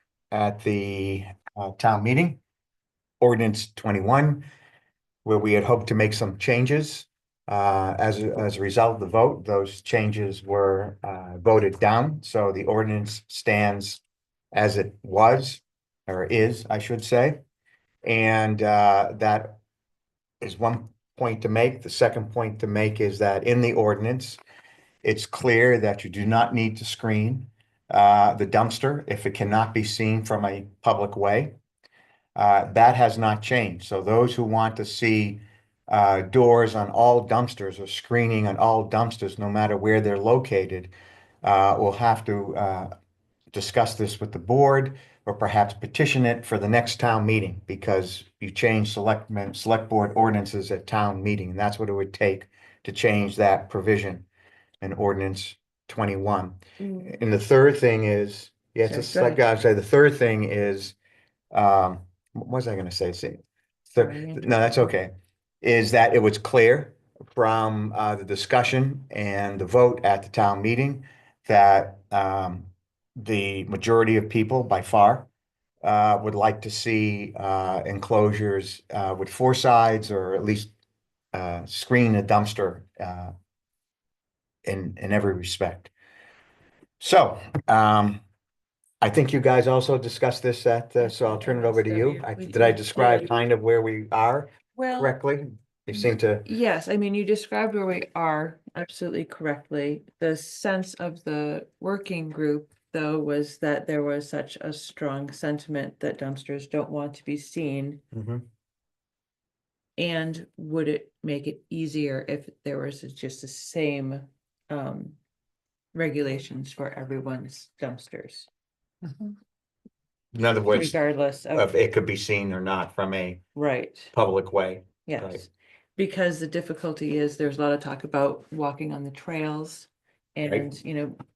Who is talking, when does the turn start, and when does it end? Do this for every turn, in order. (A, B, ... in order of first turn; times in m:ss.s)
0:00.3-0:02.4 A
0:03.2-0:04.5 A
0:05.2-0:14.0 A
0:14.5-0:17.4 A
0:18.0-0:19.6 A
0:20.4-0:24.4 A
0:25.0-0:31.6 A
0:32.4-0:42.9 A
0:43.5-0:54.2 A
0:54.8-1:01.0 A
0:56.8-0:57.2 B
0:58.8-0:59.4 B
1:01.5-1:03.4 A
1:03.9-1:15.3 A
1:04.0-1:04.9 B
1:15.8-1:20.7 A
1:21.3-1:23.3 A
1:24.6-1:25.9 A
1:27.0-1:28.2 A
1:29.0-1:36.5 A
1:31.0-1:33.3 B
1:34.8-1:35.2 B
1:36.4-1:48.0 B
1:48.1-1:48.4 A
1:50.0-1:55.2 B
1:55.9-1:58.5 B
2:00.3-2:01.0 A
2:00.7-2:01.7 B
2:01.5-2:03.4 A
2:03.6-2:04.1 B
2:04.1-2:05.4 A
2:05.1-2:11.2 B